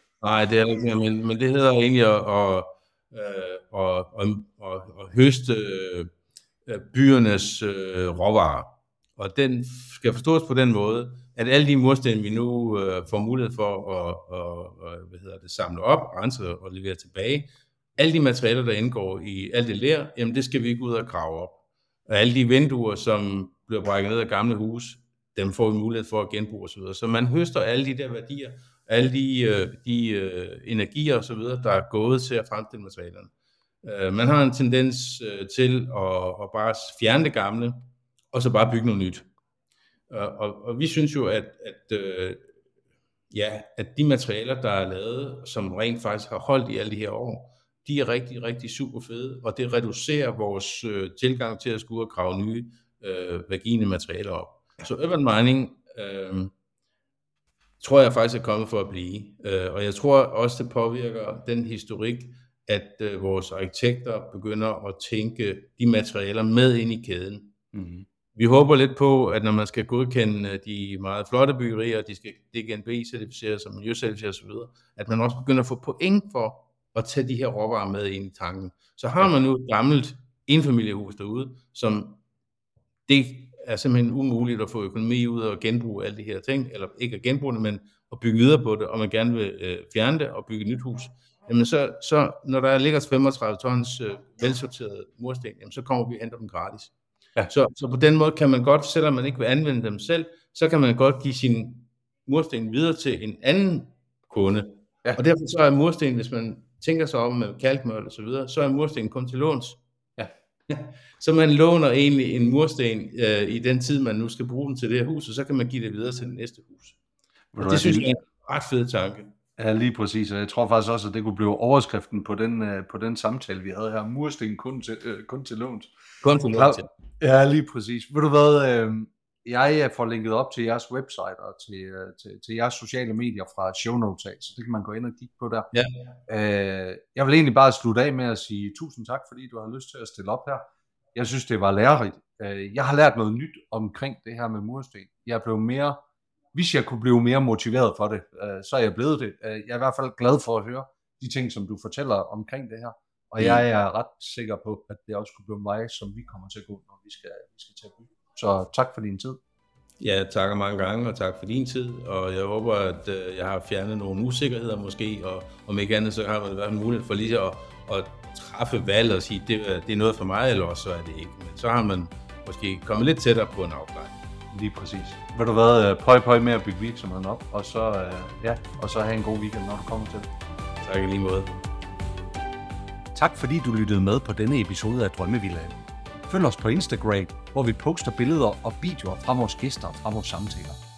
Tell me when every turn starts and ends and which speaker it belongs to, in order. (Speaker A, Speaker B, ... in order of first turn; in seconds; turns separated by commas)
Speaker A: 0.2-6.1, Speaker A: 6.7-33.3, Speaker A: 33.8-39.3, Speaker A: 40.1-42.5, Speaker A: 43.3-56.5, Speaker A: 57.8-67.5, Speaker B: 67.7-68.0, Speaker A: 68.3-82.2, Speaker A: 83.1-96.9, Speaker A: 97.5-109.8, Speaker A: 110.7-117.0, Speaker B: 117.5-118.1, Speaker A: 117.6-119.3, Speaker B: 119.6-125.9, Speaker A: 126.2-126.9, Speaker B: 126.5-135.7, Speaker A: 135.7-136.1, Speaker B: 136.3-140.6, Speaker B: 141.1-146.0, Speaker B: 146.5-159.4, Speaker A: 160.0-174.2, Speaker B: 174.5-180.3, Speaker A: 180.8-181.5, Speaker B: 183.1-190.8